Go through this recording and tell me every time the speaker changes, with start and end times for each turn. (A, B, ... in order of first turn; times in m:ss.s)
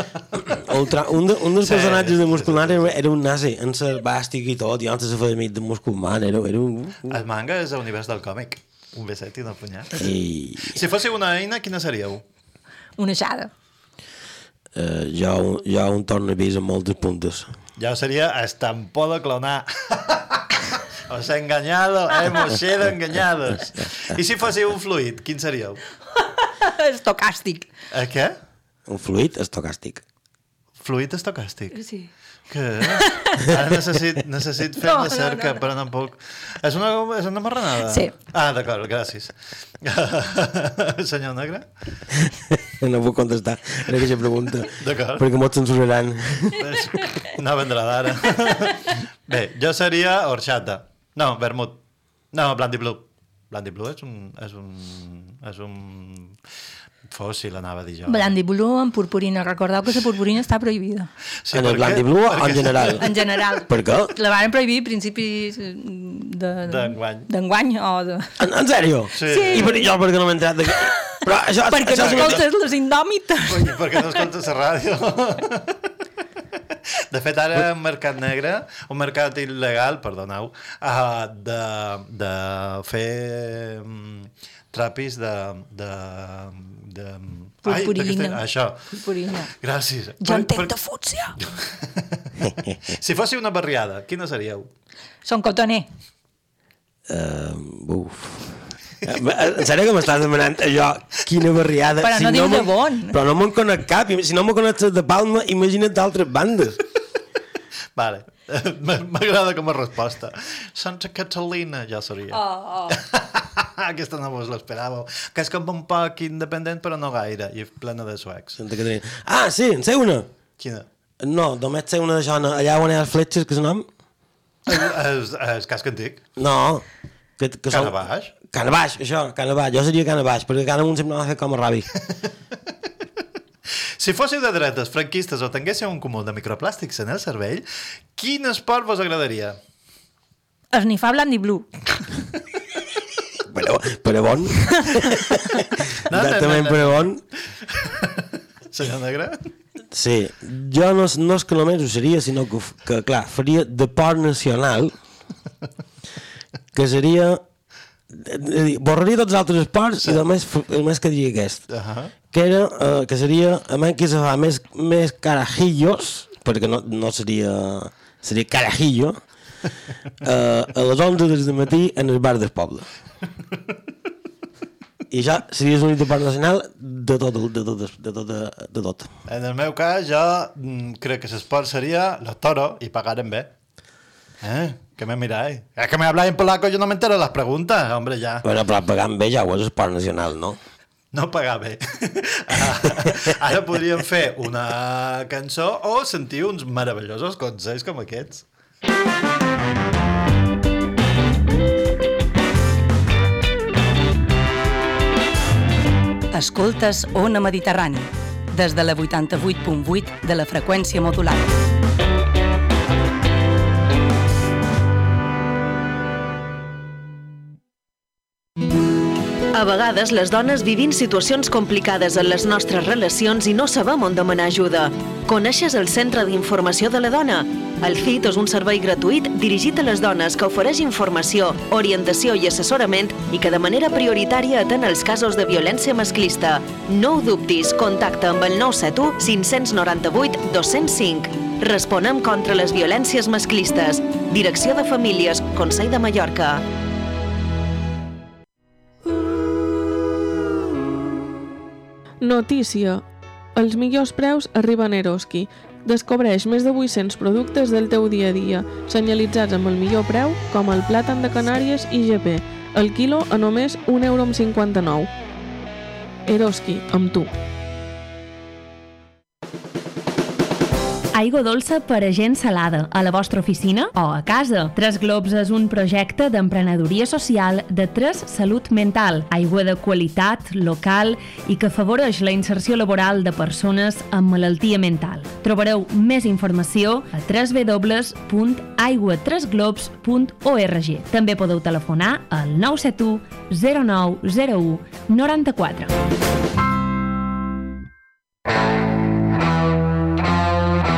0:00.3-0:07.2 A
0:01.6-0:02.9 B
0:07.1-0:10.1 B
0:10.0-0:10.7 A
0:10.7-0:12.2 B
0:13.0-0:13.5 C
0:14.7-0:17.5 A
0:17.8-0:25.8 B
0:26.4-0:27.7 C
0:27.9-0:28.3 B
0:28.9-0:30.0 A
0:30.8-0:31.8 B
0:31.7-0:32.1 C
0:32.5-0:41.6 B
0:33.0-0:33.4 C
0:34.8-0:35.6 C
0:42.6-0:46.6 A
0:44.8-0:45.2 B
0:46.6-0:51.8 B
0:52.3-0:56.4 B
0:57.1-0:58.4 B
0:58.1-1:01.1 C
1:01.4-1:03.0 B
1:01.5-1:04.1 A
1:02.9-1:08.3 C
1:06.7-1:07.3 B
1:08.4-1:12.4 A
1:09.1-1:09.7 B
1:09.2-1:09.9 C
1:11.7-1:13.7 C
1:11.9-1:12.4 B
1:13.5-1:15.8 B
1:17.1-1:28.8 B
1:27.6-1:29.5 C
1:29.5-1:30.8 B
1:30.2-1:31.3 C
1:31.4-1:34.7 B
1:35.2-1:35.9 C
1:37.1-1:46.8 A
1:42.0-1:43.1 C
1:48.0-1:52.4 B
1:52.3-1:53.0 C
1:52.9-1:58.6 B
1:58.6-2:00.3 A
2:00.6-2:00.8 B
2:01.2-2:03.8 A
2:04.7-2:06.2 B
2:06.4-2:06.8 A
2:07.4-2:11.9 A
2:07.7-2:08.3 B
2:14.0-2:19.6 B
2:20.7-2:21.7 C
2:23.4-2:27.2 A
2:26.1-2:28.2 B
2:28.7-2:29.5 B
2:29.9-2:34.9 A
2:36.7-2:37.4 A
2:38.1-2:41.6 A
2:41.7-2:42.1 B
2:42.3-2:49.2 A
2:50.2-2:52.9 A
2:55.1-2:59.1 A
2:59.3-3:03.5 B
3:04.4-3:08.4 B
3:08.4-3:10.6 A
3:11.1-3:18.4 B
3:26.3-3:31.5 D
3:39.5-4:06.6 E
4:12.2-4:25.1 F
4:26.3-4:27.3 F
4:31.1-4:55.9 G